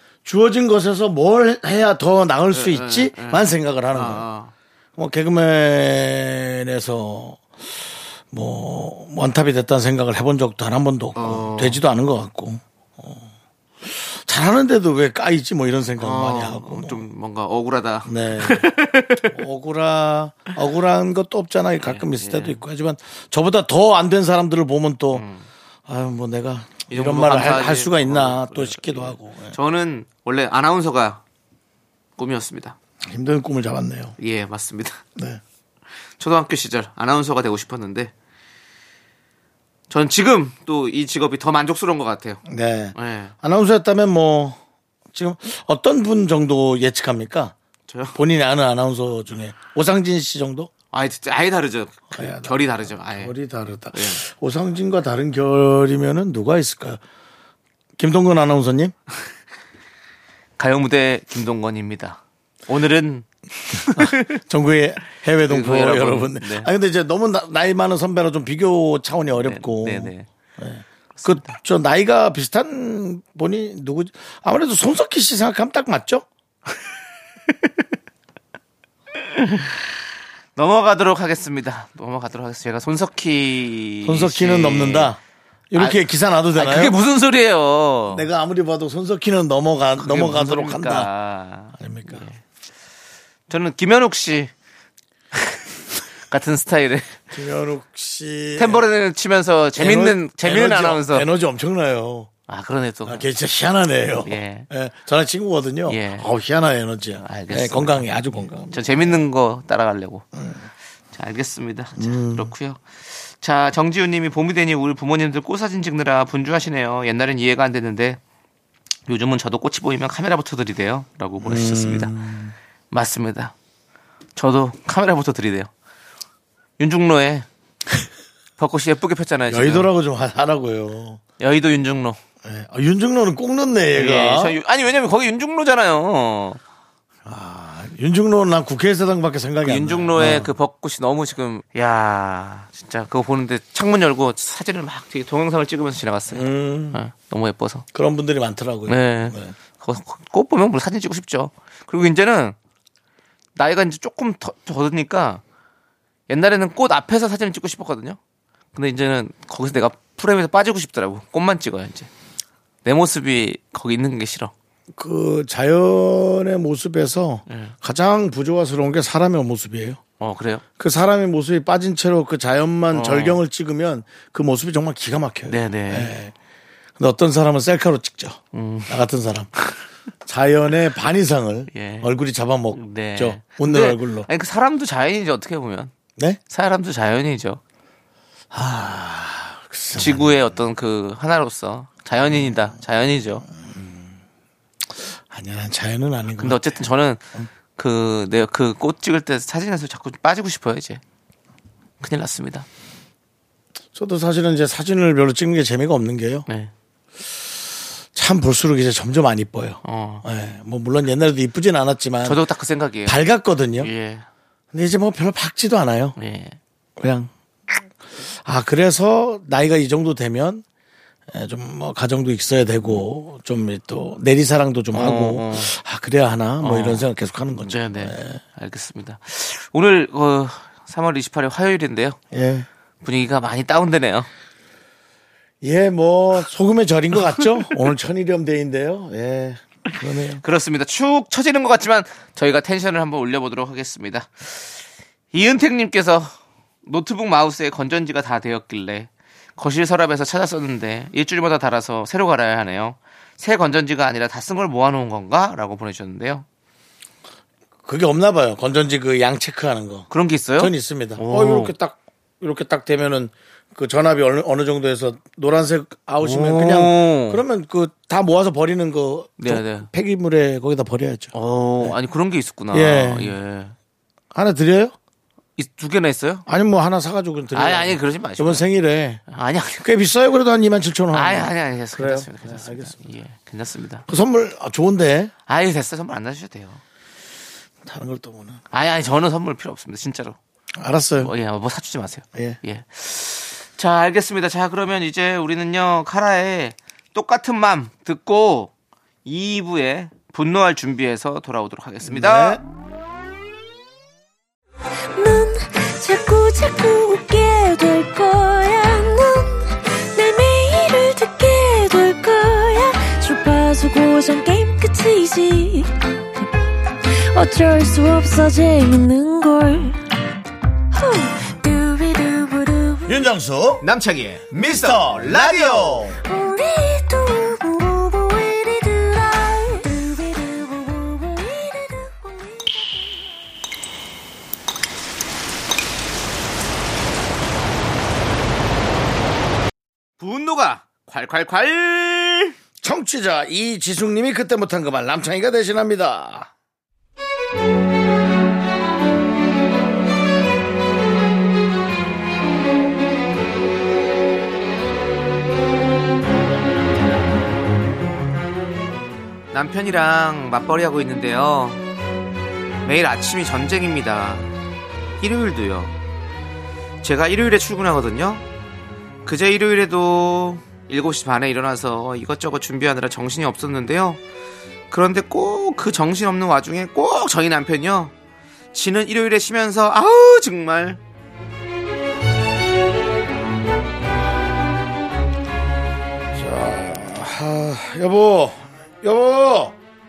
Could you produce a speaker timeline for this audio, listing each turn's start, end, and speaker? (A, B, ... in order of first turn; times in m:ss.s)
0:00.2-0:04.2 A
0:02.5-0:04.5 B
0:05.0-0:07.4 A
0:08.3-0:13.3 A
0:11.2-0:11.8 B
0:13.8-0:17.0 A
0:16.0-0:19.3 B
0:18.0-0:18.7 A
0:19.3-0:25.2 A
0:21.8-0:22.6 B
0:25.1-0:25.5 B
0:25.9-0:29.6 A
0:26.9-0:31.2 B
0:32.2-0:32.8 B
0:33.0-0:34.1 A
0:34.2-0:35.0 B
0:35.2-0:35.4 A
0:36.2-0:38.1 B
0:39.9-0:42.4 B
0:42.4-0:44.6 A
0:42.9-0:43.3 B
0:45.1-0:47.5 A
0:47.9-0:48.2 B
0:48.1-0:50.7 A
0:50.9-0:53.3 B
0:52.1-0:57.0 A
0:53.9-0:54.2 B
0:58.0-0:58.9 A
1:00.6-1:04.4 B
1:03.9-1:16.3 A
1:05.5-1:06.7 B
1:09.4-1:10.3 B
1:11.2-1:11.6 B
1:19.3-1:19.7 B
1:20.6-1:25.1 B
1:24.0-1:25.2 A
1:25.7-1:27.0 A
1:25.8-1:28.3 B
1:28.1-1:31.1 A
1:30.0-1:32.4 B
1:31.8-1:32.2 A
1:33.5-1:34.5 B
1:36.3-1:37.2 B
1:37.3-1:38.8 A
1:38.6-1:41.3 B
1:39.8-1:42.3 A
1:42.5-1:43.2 B
1:43.0-1:49.2 A
1:44.2-1:44.7 B
1:45.9-1:46.3 B
1:47.2-1:50.2 B
1:50.3-1:50.7 A
1:51.1-1:58.2 B
1:52.0-1:52.5 A
1:59.1-2:02.1 B
2:01.4-2:02.5 A
2:02.9-2:03.5 B
2:04.4-2:05.7 B
2:06.8-2:07.4 B
2:08.6-2:09.9 B
2:09.5-2:11.2 A
2:11.4-2:12.2 B
2:12.4-2:14.6 A
2:13.9-2:16.6 B
2:17.2-2:20.5 A
2:19.6-2:27.8 B
2:26.3-2:27.0 A
2:27.9-2:29.6 A
2:28.9-2:32.6 B
2:33.6-2:35.4 B
2:36.3-2:38.2 B
2:38.7-2:42.1 B
2:42.8-2:44.5 B
2:44.9-2:50.0 A
2:47.5-2:47.7 B
2:50.2-2:50.6 B
2:50.8-2:56.3 A
2:52.9-2:53.4 B
2:55.5-2:56.2 B
2:57.0-2:59.5 A
2:58.5-2:59.0 B
3:00.2-3:04.3 A
3:01.7-3:02.1 B
3:02.7-3:05.9 B
3:06.5-3:07.6 B
3:08.5-3:10.6 A
3:10.0-3:13.4 B
3:12.3-3:12.7 A
3:13.5-3:14.1 A
3:15.0-3:16.8 A
3:16.4-3:17.2 B
3:17.7-3:21.0 B
3:22.0-3:22.6 B
3:23.9-3:26.4 A
3:26.5-3:26.7 B
3:28.1-3:32.4 A
3:29.8-3:30.2 B
3:32.2-3:33.2 B
3:33.0-3:33.9 A
3:33.8-3:34.2 B
3:34.7-3:36.2 A
3:36.2-3:36.6 B
3:37.0-3:37.8 A
3:38.4-3:40.6 A
3:41.3-3:48.4 A
3:44.9-3:45.7 B
3:46.6-3:47.1 B
3:47.6-3:52.2 B
3:52.3-3:52.7 A
3:53.0-3:54.3 B
3:55.6-4:00.4 A
4:00.4-4:06.3 B
4:06.8-4:16.4 B
4:17.8-4:20.1 A
4:20.1-4:21.7 B
4:20.6-4:32.0 A
4:26.2-4:27.4 B
4:29.4-4:29.9 B
4:31.3-4:33.7 B
4:32.7-4:33.3 A
4:34.3-4:34.9 A
4:35.6-4:36.4 B
4:36.5-4:39.2 A
4:37.5-4:38.6 B
4:39.3-4:39.8 B
4:39.8-4:43.0 A
4:41.1-4:44.0 B
4:44.1-4:45.3 A
4:45.5-4:46.8 B
4:47.8-4:48.6 A
4:48.7-4:50.4 B
4:50.8-4:51.3 A
4:51.2-4:58.7 B
4:59.2-5:02.6 B
5:02.0-5:02.6 A
5:05.2-5:15.9 C
5:17.0-5:20.0 C
5:20.9-5:23.2 C
5:23.1-5:23.8 A
5:23.8-5:26.1 B
5:24.5-5:26.2 A
5:26.2-5:33.2 C
5:40.2-5:42.5 B
5:42.8-5:46.5 A
5:59.5-6:01.8 B
6:02.8-6:04.5 B
6:05.2-6:05.9 B
6:07.0-6:08.4 B
6:09.2-6:14.2 B
6:14.9-6:18.1 B
6:18.7-6:21.0 B
6:26.3-6:29.7 A